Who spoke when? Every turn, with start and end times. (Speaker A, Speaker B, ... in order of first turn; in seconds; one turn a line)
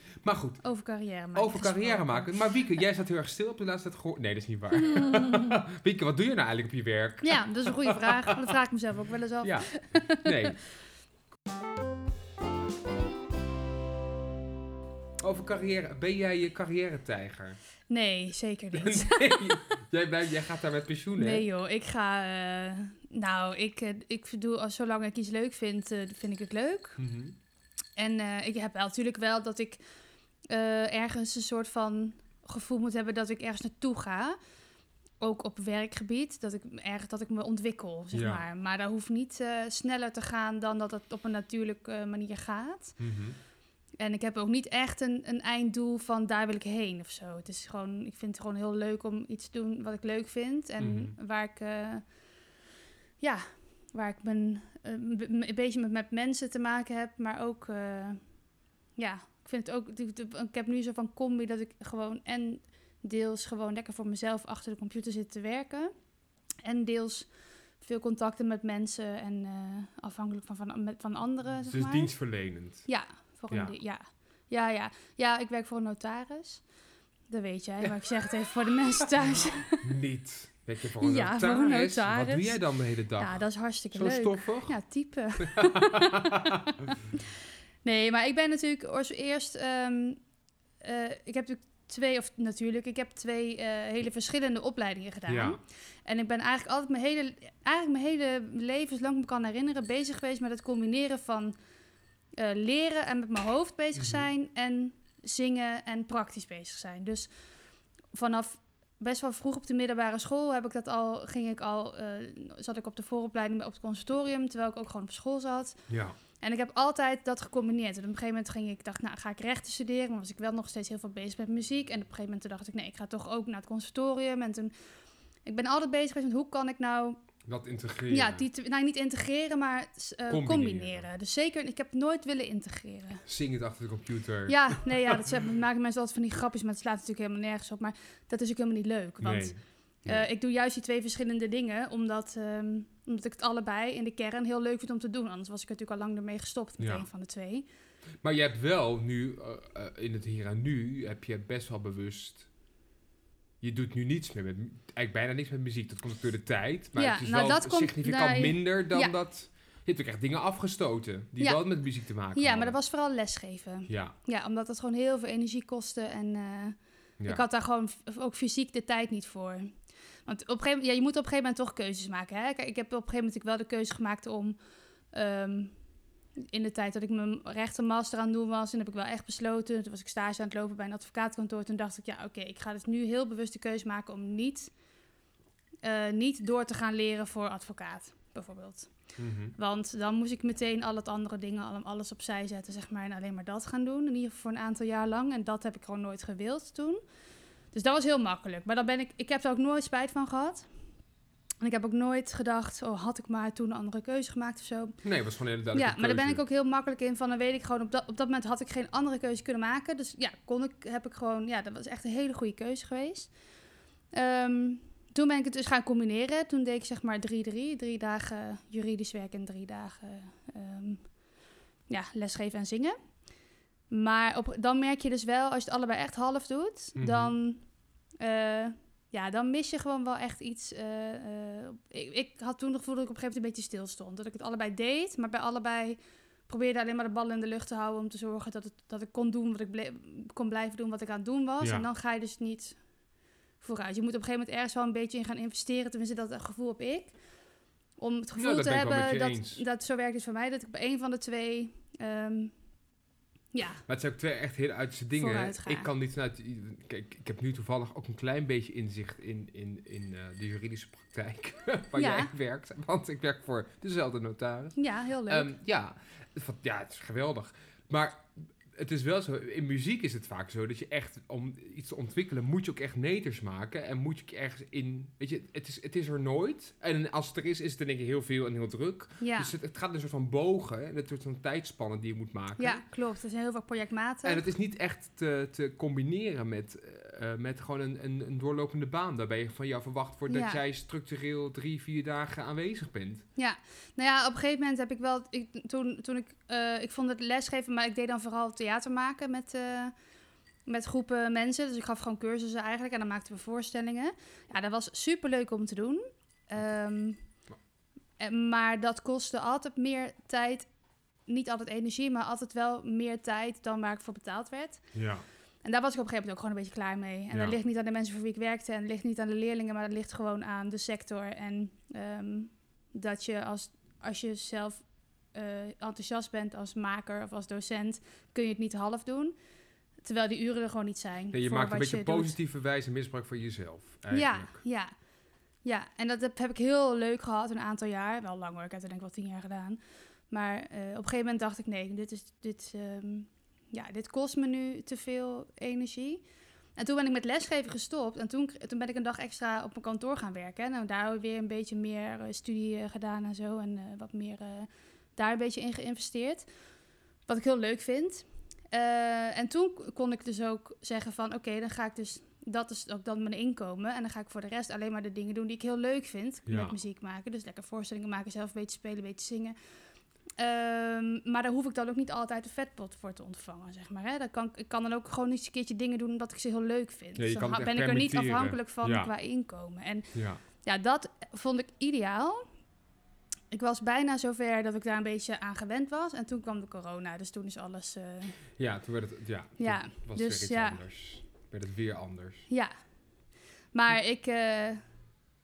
Speaker A: 0.2-0.6
Speaker B: 0.6-2.5
Speaker A: 1.3-8.5
Speaker B: 4.8-5.5
Speaker B: 7.2-10.5
Speaker A: 9.4-10.6
Speaker A: 15.2-17.6
Speaker B: 17.9-19.6
Speaker A: 18.7-21.5
Speaker B: 21.2-27.0
Speaker A: 27.0-27.4
Speaker B: 28.0-29.8
Speaker B: 30.5-34.4
Speaker B: 35.2-43.0
Speaker A: 38.1-38.4
Speaker A: 43.0-43.4
Speaker B: 44.0-52.0
Speaker A: 50.8-51.1
Speaker B: 53.2-58.2
Speaker B: 59.0-65.9
Speaker B: 66.6-67.3
Speaker B: 67.8-72.1
Speaker A: 71.6-72.9
Speaker B: 72.9-76.6
Speaker A: 73.5-73.7
Speaker B: 77.3-79.9
Speaker A: 79.1-83.4
Speaker B: 81.0-82.6
Speaker B: 83.2-87.3
Speaker A: 83.9-84.8
Speaker A: 85.4-86.9
Speaker B: 87.8-90.2
Speaker B: 90.8-101.5
Speaker A: 95.3-95.6
Speaker B: 102.4-107.3
Speaker A: 104.0-104.3
Speaker B: 108.1-115.8
Speaker A: 115.9-116.2
Speaker B: 116.4-124.7
Speaker B: 125.5-127.2
Speaker A: 127.4-128.4
Speaker B: 128.1-133.2
Speaker A: 130.3-131.1
Speaker A: 133.2-135.3
Speaker B: 134.5-139.5
Speaker A: 139.2-140.2
Speaker B: 140.0-147.7
Speaker A: 146.8-147.1
Speaker A: 148.2-152.5
Speaker A: 153.6-162.8
Speaker B: 156.9-159.1
Speaker B: 161.4-161.6
Speaker B: 162.3-169.7
Speaker A: 163.9-164.2
Speaker B: 170.2-174.6
Speaker B: 175.1-175.7
Speaker B: 176.5-184.7
Speaker B: 185.8-188.9
Speaker A: 189.2-189.6
Speaker B: 189.6-197.0
Speaker B: 197.7-200.7
Speaker B: 201.6-205.0
Speaker A: 205.0-206.4
Speaker B: 205.7-213.3
Speaker B: 214.1-221.1
Speaker B: 221.9-222.9
Speaker B: 223.9-227.6
Speaker A: 226.9-227.3
Speaker B: 228.2-242.8
Speaker A: 241.6-241.9
Speaker B: 243.6-247.1
Speaker B: 248.0-252.5
Speaker A: 248.4-249.6
Speaker B: 253.5-253.8
Speaker A: 253.9-282.8
Speaker B: 255.1-255.9
Speaker B: 262.0-262.3
Speaker B: 264.8-265.5
Speaker B: 279.2-279.5
Speaker B: 282.6-284.4
Speaker A: 284.2-293.2
Speaker B: 290.3-290.6
Speaker B: 293.4-299.9
Speaker B: 300.6-307.2
Speaker B: 308.2-310.7
Speaker B: 311.3-314.8
Speaker A: 314.9-315.2
Speaker B: 315.6-329.3
Speaker B: 330.0-332.4
Speaker A: 331.3-334.6
Speaker B: 334.1-334.9
Speaker B: 335.6-346.2
Speaker B: 346.8-356.4
Speaker B: 357.3-369.5
Speaker A: 366.5-366.8
Speaker B: 370.4-380.1
Speaker A: 377.1-379.1
Speaker A: 380.1-380.4
Speaker B: 380.6-382.4
Speaker B: 383.5-388.4
Speaker A: 388.6-392.4
Speaker B: 389.6-390.8
Speaker B: 393.7-394.8